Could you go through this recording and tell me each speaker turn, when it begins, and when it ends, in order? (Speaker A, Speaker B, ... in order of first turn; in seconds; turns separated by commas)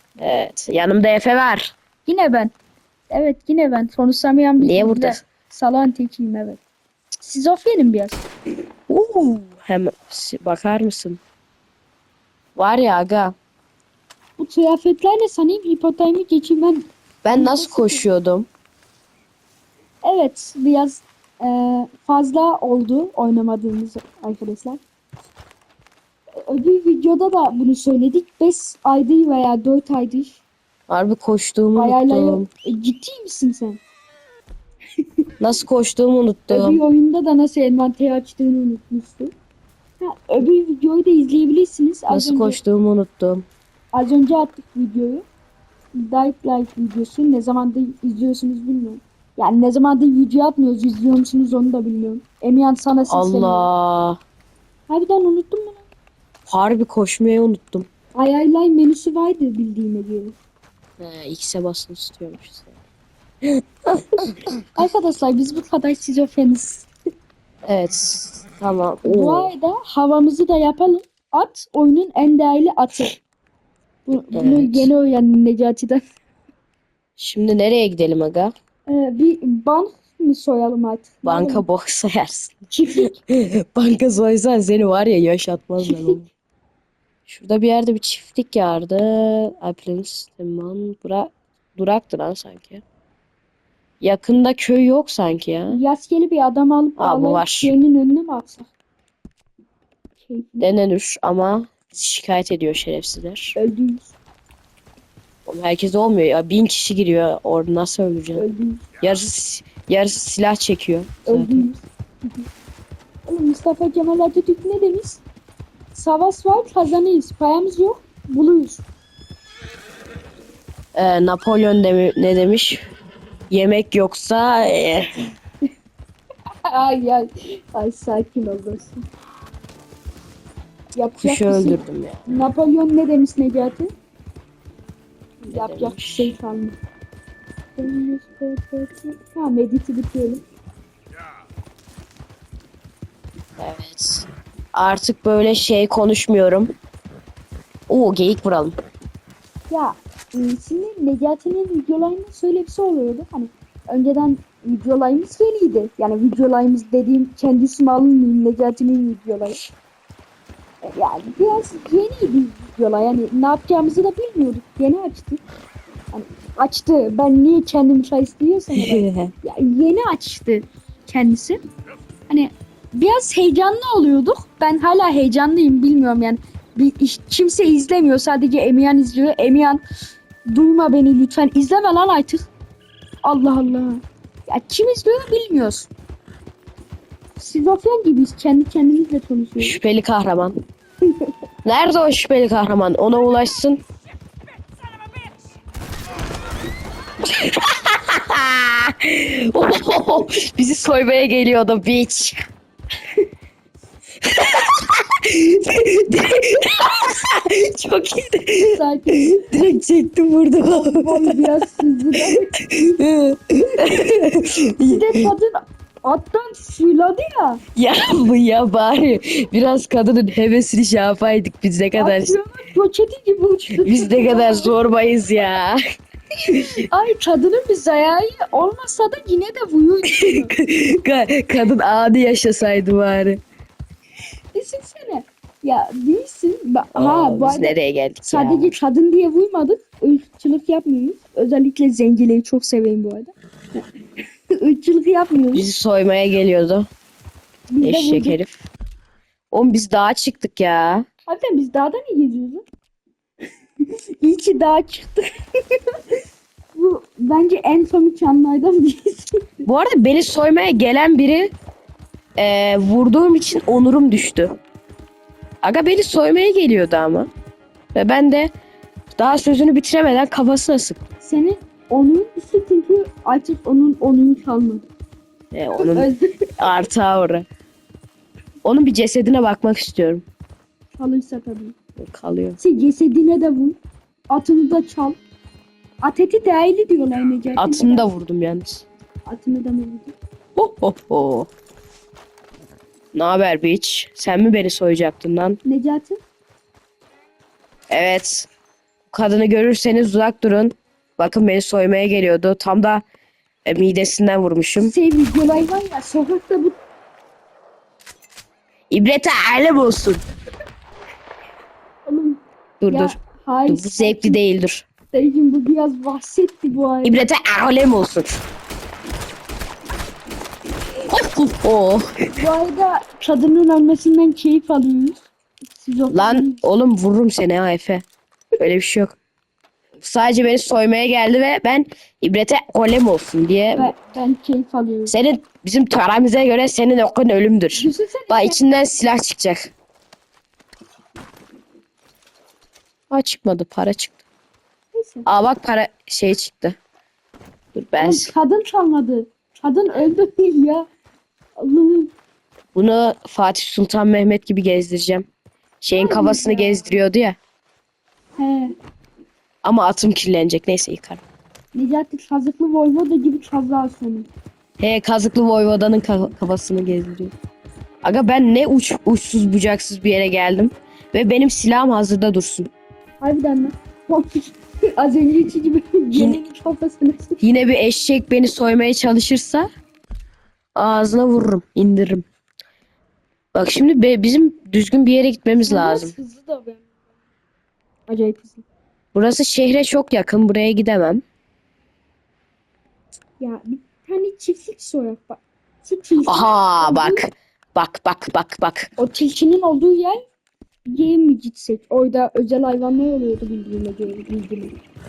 Speaker A: 0.2-1.7, Speaker B: 2.0-2.5, Speaker B: 3.1-6.6, Speaker A: 4.6-5.2, Speaker B: 7.2-8.2, Speaker A: 8.9-11.2, Speaker A: 12.6-13.3, Speaker B: 14.4-18.0, Speaker A: 17.2-18.5, Speaker B: 20.0-24.8, Speaker B: 26.4-30.4, Speaker A: 30.9-32.5, Speaker B: 31.8-33.8, Speaker A: 35.4-36.8, Speaker B: 36.5-39.3, Speaker B: 40.0-42.6, Speaker A: 42.1-43.5, Speaker B: 43.9-45.2, Speaker B: 45.9-53.7, Speaker A: 53.1-54.2, Speaker B: 54.9-55.8, Speaker A: 56.5-57.9, Speaker B: 58.1-60.4, Speaker A: 61.0-62.7, Speaker A: 63.4-64.7, Speaker B: 64.7-66.9, Speaker A: 67.7-69.5, Speaker B: 69.0-73.1, Speaker B: 74.0-76.0, Speaker A: 74.3-74.9, Speaker A: 77.2-78.5, Speaker B: 78.9-81.6, Speaker A: 81.2-86.2, Speaker B: 82.7-83.2, Speaker B: 85.8-86.2, Speaker A: 87.3-92.8, Speaker A: 94.0-95.8, Speaker B: 95.7-98.7, Speaker A: 97.0-97.7, Speaker B: 100.2-100.6, Speaker A: 100.6-103.5, Speaker B: 103.5-104.1, Speaker A: 105.5-108.4, Speaker B: 108.3-108.8, Speaker A: 109.0-111.7, Speaker B: 111.2-111.8, Speaker B: 113.2-115.2, Speaker B: 115.9-118.8, Speaker A: 120.9-122.8, Speaker A: 123.5-125.2, Speaker B: 126.7-129.1, Speaker B: 130.9-133.9, Speaker A: 131.2-132.3, Speaker B: 135.4-136.8, Speaker A: 135.5-136.3, Speaker B: 137.8-140.4, Speaker A: 143.6-146.7, Speaker A: 147.9-148.8, Speaker B: 149.7-159.7, Speaker B: 160.8-165.4, Speaker B: 166.1-171.6, Speaker A: 168.7-169.3, Speaker B: 172.3-179.8, Speaker B: 180.4-182.5, Speaker B: 183.2-185.9, Speaker B: 187.3-189.8, Speaker A: 189.6-190.5, Speaker B: 191.0-191.3, Speaker A: 191.6-193.8, Speaker A: 197.2-202.4, Speaker A: 204.2-211.5, Speaker B: 208.6-209.4, Speaker B: 210.7-212.5, Speaker A: 212.5-215.3, Speaker B: 214.9-217.6, Speaker A: 217.8-222.4, Speaker B: 221.9-224.8, Speaker A: 223.7-225.8, Speaker A: 226.5-226.7, Speaker B: 226.5-230.5, Speaker A: 230.1-233.4, Speaker B: 234.5-243.8, Speaker A: 236.9-238.8, Speaker B: 244.5-245.7, Speaker A: 245.5-246.9, Speaker B: 247.7-248.4, Speaker A: 247.8-248.7, Speaker A: 249.5-251.1, Speaker B: 251.3-252.6, Speaker B: 253.8-256.2, Speaker B: 256.7-259.5, Speaker A: 259.6-261.5, Speaker A: 262.4-264.6, Speaker A: 265.6-267.3, Speaker A: 267.9-268.5, Speaker A: 269.2-271.0, Speaker B: 271.2-274.8, Speaker A: 275.5-277.5, Speaker B: 275.7-276.9, Speaker A: 278.6-280.2, Speaker B: 280.9-281.8, Speaker A: 281.9-282.6, Speaker B: 282.6-283.8, Speaker B: 284.3-285.2, Speaker B: 286.0-288.1, Speaker A: 287.6-288.9, Speaker B: 289.2-290.1, Speaker A: 290.6-291.5, Speaker A: 293.1-295.6, Speaker B: 295.6-296.2, Speaker A: 297.9-298.5, Speaker A: 299.1-303.0, Speaker A: 303.6-304.9, Speaker B: 304.8-306.8, Speaker A: 308.9-310.2, Speaker B: 312.1-314.4, Speaker A: 312.8-313.1, Speaker A: 313.7-314.9, Speaker B: 315.1-317.2, Speaker A: 317.0-318.4, Speaker A: 321.1-322.1, Speaker B: 322.4-326.6, Speaker A: 326.1-328.0, Speaker A: 328.6-329.1, Speaker A: 330.0-333.9, Speaker B: 333.7-335.1, Speaker A: 335.1-339.7, Speaker B: 337.8-338.6, Speaker A: 343.1-344.2, Speaker B: 344.9-345.3, Speaker A: 345.2-346.8, Speaker A: 347.7-348.3, Speaker B: 348.0-350.9, Speaker B: 351.6-352.1, Speaker A: 352.8-355.3, Speaker A: 355.8-357.4, Speaker B: 355.9-357.0, Speaker B: 358.4-358.7, Speaker A: 359.6-361.2, Speaker B: 361.7-364.3, Speaker A: 364.8-367.3, Speaker A: 368.0-372.7, Speaker B: 373.2-377.4, Speaker A: 377.4-379.7, Speaker A: 380.8-382.2, Speaker A: 383.5-386.1, Speaker B: 385.6-386.8, Speaker B: 388.1-388.6, Speaker A: 389.1-391.2, Speaker B: 393.4-397.2, Speaker A: 396.2-398.9, Speaker B: 399.0-400.2, Speaker B: 400.9-404.8